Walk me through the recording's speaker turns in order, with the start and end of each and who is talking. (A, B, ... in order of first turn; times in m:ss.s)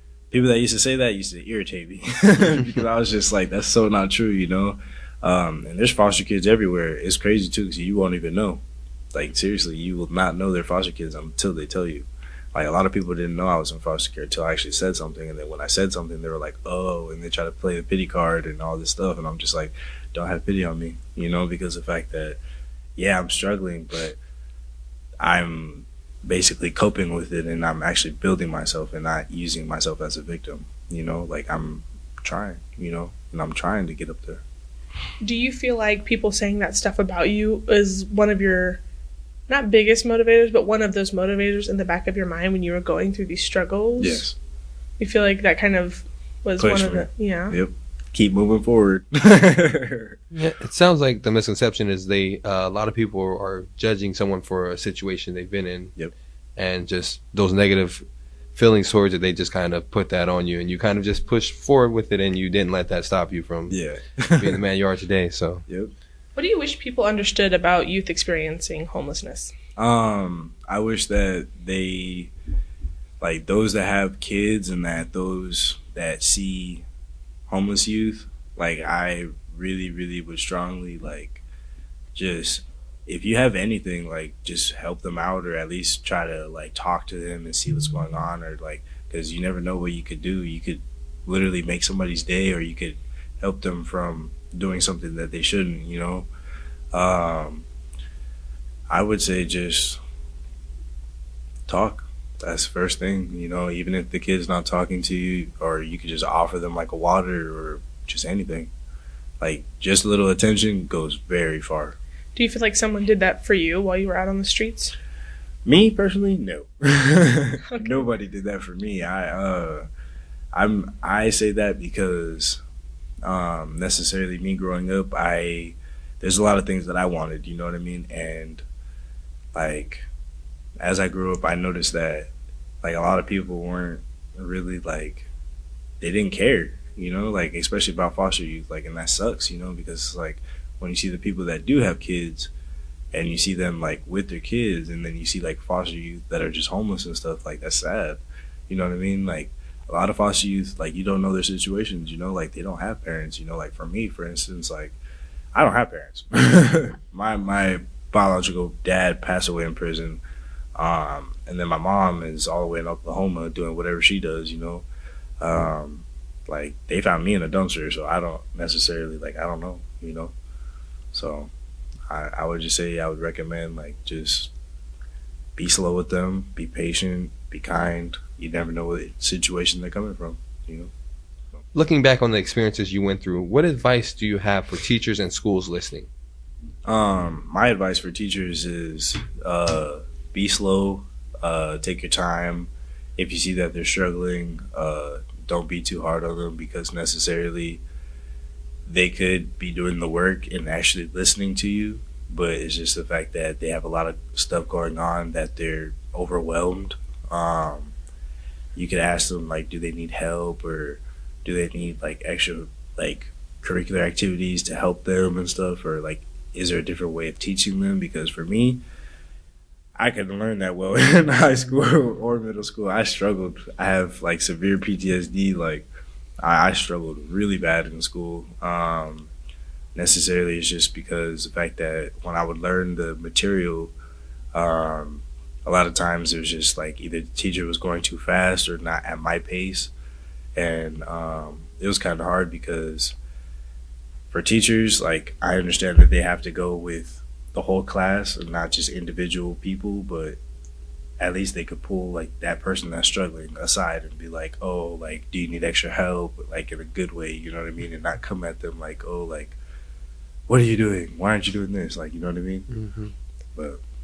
0:00.3-0:08.6 A
0:09.1-0:22.4 A
0:23.0-0:24.2 A
0:25.2-0:34.4 A
0:35.2-0:38.8 B
0:39.5-0:44.3 B
0:44.0-0:44.4 A
0:45.0-0:47.6 B
0:46.6-0:50.2 A
0:50.3-0:56.0 C
0:56.6-1:03.8 C
1:03.7-1:04.6 A
1:04.4-1:05.7 C
1:05.7-1:05.9 A
1:06.4-1:09.5 B
1:09.8-1:12.3 A
1:13.2-1:16.8 A
1:17.5-1:21.4 A
1:22.2-1:36.3 A
1:36.9-1:37.7 A
1:38.9-1:40.0 A
1:41.7-1:48.7 A
1:49.4-1:52.0 A
1:52.4-1:55.0 B
1:55.6-1:59.9 A
1:57.7-1:58.0 B
2:00.5-2:02.6 A
2:03.2-2:08.6 A
2:09.5-2:10.1 A
2:10.8-2:12.3 A
2:12.8-2:15.3 A
2:16.0-2:22.5 A
2:23.1-2:35.0 A
2:35.5-2:40.2 A
2:40.8-2:44.9 A
2:45.4-2:50.3 A
2:51.1-2:51.5 A
2:52.1-2:54.5 A
2:55.6-3:00.9 A
3:01.7-3:06.1 C
3:06.9-3:17.8 A
3:18.9-3:27.9 A
3:28.8-3:38.8 A
3:40.0-3:45.9 A
3:46.4-3:49.3 A
3:50.0-3:53.9 A
3:54.5-3:59.9 A
4:00.6-4:03.2 A
4:04.3-4:10.4 A
4:11.2-4:19.6 A
4:20.5-4:22.7 A
4:22.7-4:23.1 C